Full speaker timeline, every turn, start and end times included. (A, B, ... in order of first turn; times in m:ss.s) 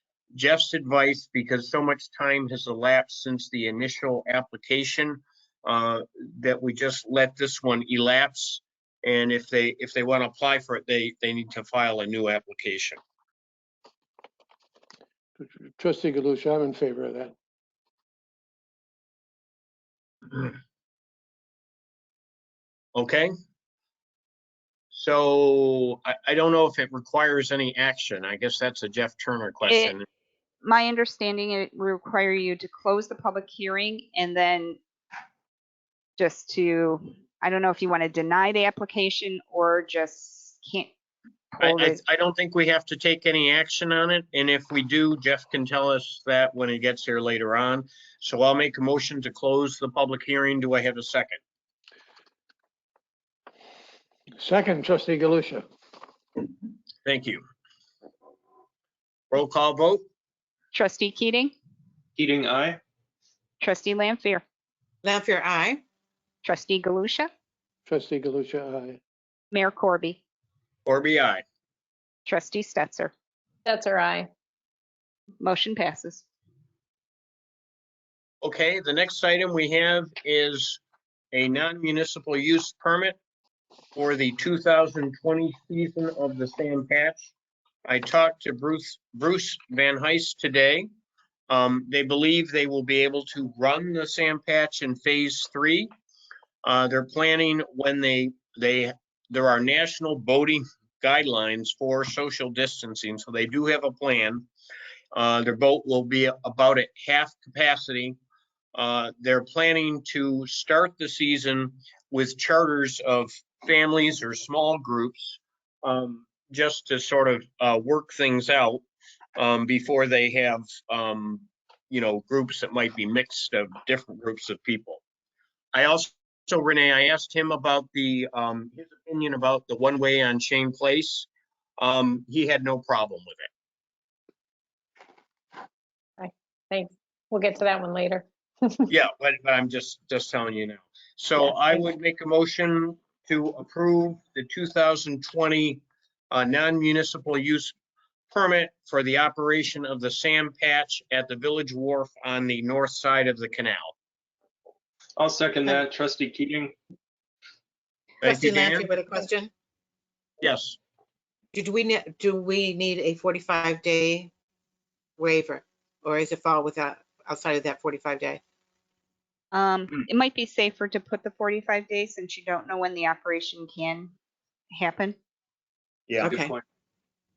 0:00.3-0:13.0 A
0:15.4-0:17.3 B
0:23.0-0:23.3 A
0:24.9-0:30.0 A
0:29.7-0:29.9 C
0:30.6-0:34.8 C
0:36.2-0:40.9 C
0:41.5-0:42.0 C
0:41.6-0:51.4 A
0:54.4-0:55.6 B
0:57.0-0:57.4 A
0:59.3-1:00.0 A
1:00.7-1:01.5 C
1:02.2-1:02.8 D
1:03.6-1:04.4 C
1:05.0-1:05.8 E
1:06.4-1:07.3 C
1:07.9-1:09.0 B
1:09.5-1:10.2 C
1:10.9-1:11.4 A
1:12.3-1:13.1 C
1:13.7-1:14.3 F
1:15.4-1:16.2 C
1:18.4-1:20.8 A
1:21.3-1:23.2 A
1:24.0-1:27.3 A
1:27.8-1:30.9 A
1:31.5-1:35.9 A
1:36.6-1:44.5 A
1:45.1-1:48.2 A
1:48.7-1:58.8 A
1:59.4-2:05.0 A
2:05.7-2:13.5 A
2:16.2-2:18.9 F
2:18.9-2:27.7 A
2:28.3-2:33.9 A
2:35.2-2:36.7 D
2:38.2-2:39.5 E
2:38.2-2:38.9 A
2:40.4-2:40.8 A
2:41.5-2:44.3 E
2:45.2-2:48.4 E
2:49.5-2:54.1 C
2:54.7-2:55.2 C
2:56.1-2:56.4 A
2:56.2-2:56.6 E
2:56.2-2:56.6 D